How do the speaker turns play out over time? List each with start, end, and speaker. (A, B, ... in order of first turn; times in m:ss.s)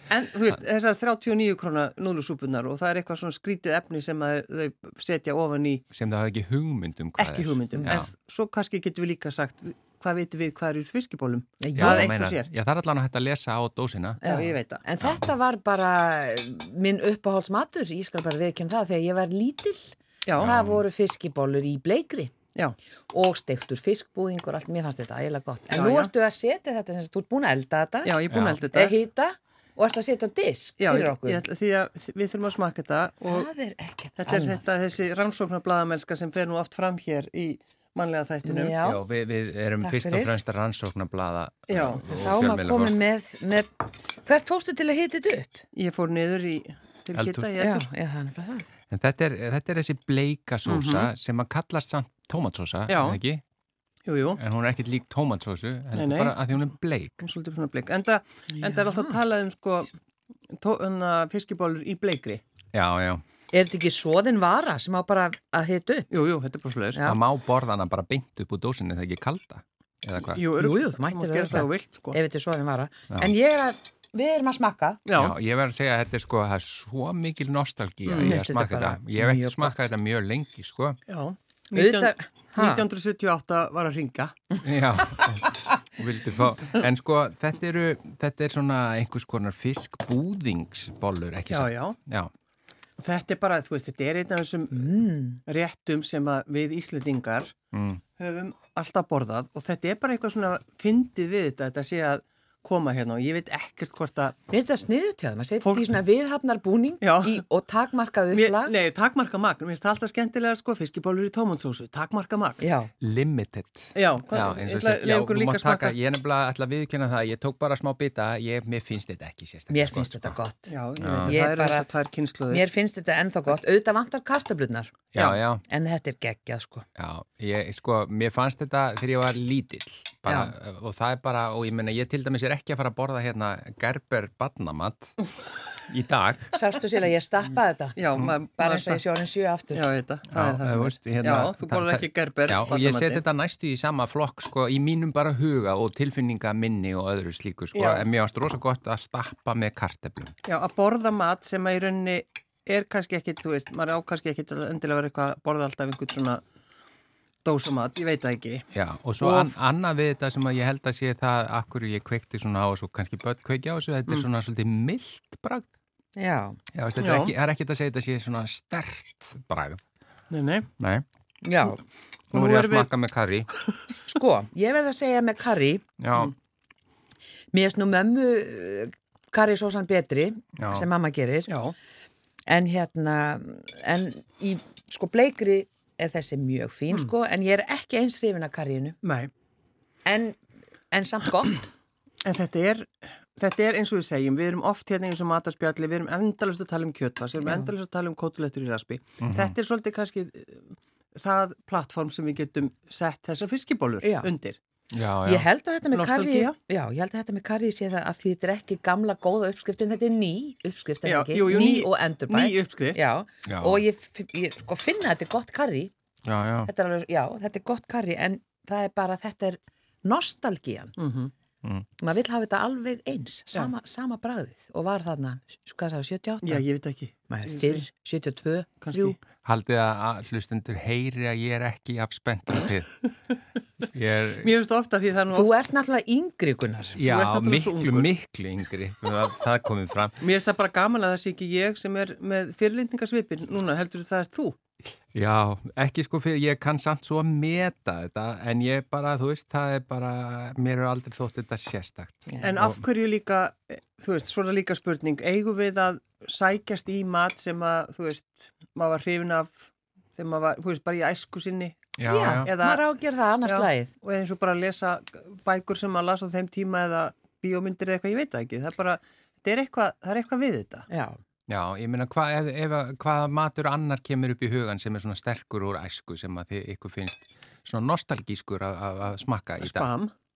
0:00.1-0:05.8 A
0:05.9-0:08.1 B
0:07.2-0:12.5 A
0:07.7-0:08.0 C
0:11.6-0:12.1 C
0:11.8-0:14.2 B
0:14.2-0:22.3 C
0:14.2-0:14.8 A
0:15.0-0:15.3 B
0:20.3-0:20.5 A
0:20.4-0:20.8 B
0:23.1-0:28.2 C
0:25.7-0:26.1 A
0:28.0-0:29.0 A
0:28.3-0:28.6 B
0:28.7-0:31.4 C
0:30.8-0:33.5 A
0:33.3-0:34.6 C
0:34.2-0:38.8 A
0:38.4-0:39.0 C
0:38.8-0:43.0 B
0:39.8-0:40.4 C
0:41.7-0:42.1 A
0:42.2-0:45.6 C
0:45.7-0:47.9 A
0:47.2-0:47.6 B
0:47.6-0:48.7 C
0:48.9-0:53.4 B
0:50.7-0:51.1 A
0:52.9-0:53.2 A
0:54.1-0:54.4 A
0:54.4-0:57.2 B
0:55.9-0:56.7 A
0:57.2-0:59.9 A
0:58.6-0:59.2 C
1:00.6-1:02.4 A
1:02.7-1:03.2 B
1:03.5-1:06.1 C
1:06.1-1:07.0 A
1:07.0-1:10.4 B
1:10.2-1:12.2 A
1:10.5-1:15.0 C
1:15.1-1:15.4 A
1:15.2-1:21.0 B
1:18.1-1:18.4 A
1:18.2-1:19.8 C
1:21.1-1:24.6 A
1:21.8-1:22.8 C
1:24.6-1:32.3 B
1:31.5-1:32.0 A
1:33.0-1:37.5 A
1:34.8-1:35.4 C
1:37.7-1:38.0 B
1:38.2-1:44.4 A
1:44.5-1:48.7 C
1:45.6-1:45.9 A
1:47.0-1:47.4 A
1:48.3-1:52.6 A
1:52.6-1:52.9 C
1:53.0-2:00.4 B
1:53.9-1:56.0 A
1:59.7-2:00.7 C
2:00.7-2:02.6 A
2:01.0-2:01.4 B
2:01.2-2:01.9 C
2:02.5-2:04.9 C
2:05.2-2:05.6 B
2:05.2-2:05.4 A
2:05.7-2:06.9 C
2:07.0-2:15.2 B
2:10.3-2:10.5 C
2:15.8-2:16.6 B
2:16.6-2:18.0 C
2:18.0-2:19.0 A
2:18.6-2:19.8 C
2:19.7-2:23.2 A
2:20.3-2:30.4 B
2:27.7-2:28.1 A
2:30.5-2:36.4 A
2:37.4-2:38.7 A
2:38.7-2:45.7 B
2:39.2-2:39.6 A
2:46.2-2:46.6 C
2:46.7-2:49.8 B
2:47.0-2:47.3 A
2:50.3-2:50.7 A
2:50.8-2:51.0 B
2:51.4-2:51.8 C
2:52.3-2:52.9 A
2:52.3-2:53.5 B
2:54.1-2:55.8 C
2:56.0-2:56.3 B
2:57.5-3:01.5 C
3:00.6-3:00.9 B
3:01.5-3:01.8 A
3:02.5-3:09.0 C
3:09.0-3:09.3 A
3:10.0-3:10.4 C
3:10.9-3:11.7 C
3:12.2-3:24.6 A
3:17.4-3:17.7 C
3:19.2-3:19.6 B
3:24.0-3:24.3 C
3:24.9-3:25.5 B
3:25.2-3:35.9 C
3:25.9-3:26.6 A
3:31.0-3:33.0 A
3:33.5-3:33.8 B
3:36.2-3:36.7 B
3:36.7-3:40.9 C
3:41.0-3:41.3 A
3:42.0-3:46.6 C
3:46.4-3:47.9 A
3:47.3-3:49.2 C
3:48.8-3:49.2 A
3:49.4-3:53.1 B
3:53.8-3:54.5 B
3:54.4-3:55.6 A
3:55.3-3:57.0 C
3:57.0-4:00.2 B
3:57.0-3:58.1 A
4:00.2-4:04.6 A
4:05.1-4:12.8 B
4:12.4-4:19.6 A
4:20.2-4:22.8 A
4:22.0-4:22.5 B
4:22.0-4:23.9 C
4:23.4-4:30.9 A
4:30.9-4:31.2 C
4:31.5-4:39.9 B
4:39.6-4:40.1 A